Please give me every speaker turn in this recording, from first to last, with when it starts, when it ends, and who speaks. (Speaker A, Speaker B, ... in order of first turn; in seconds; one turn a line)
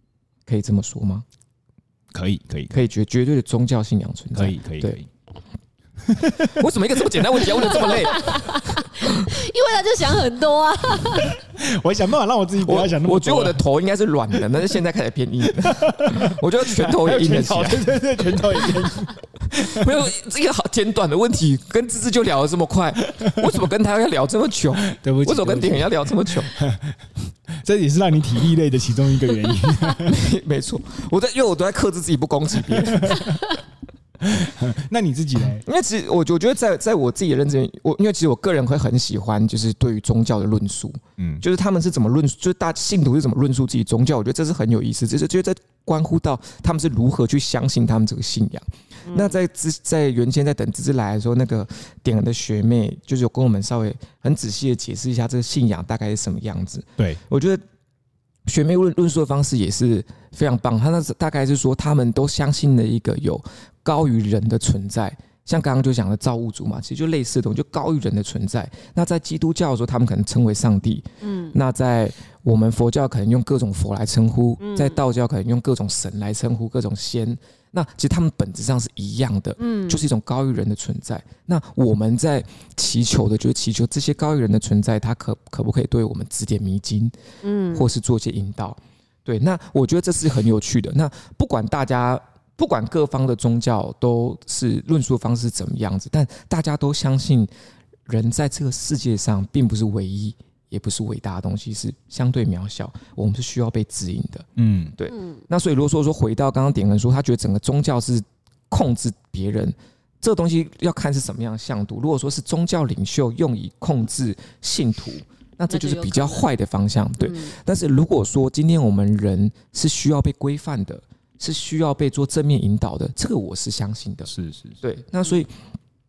Speaker A: 0.5-1.2
Speaker B: 2.1-2.8
Speaker A: 2.7-5.0
Speaker B: 4.3-5.1
Speaker B: 6.0-6.7
Speaker A: 6.4-9.2
Speaker B: 7.3-7.9
Speaker C: 7.7-11.4
Speaker B: 11.4-13.6
Speaker A: 12.6-18.9
Speaker B: 15.5-20.0
Speaker A: 19.7-26.5
Speaker B: 23.1-23.4
Speaker B: 24.9-27.0
Speaker B: 27.6-30.2
Speaker A: 30.0-33.4
Speaker B: 32.7-33.5
Speaker B: 34.2-35.6
Speaker A: 35.6-57.6
Speaker B: 41.2-41.4
Speaker C: 49.1-49.4
Speaker A: 58.5-87.1
Speaker C: 71.2-71.6
Speaker C: 74.6-75.0
Speaker C: 79.6-80.1
Speaker C: 87.4-87.9
Speaker A: 87.7-97.5
Speaker A: 98.1-125.6
Speaker B: 104.6-105.0
Speaker C: 105.1-105.4
Speaker C: 115.7-116.5
Speaker C: 117.2-117.5
Speaker B: 124.3-124.8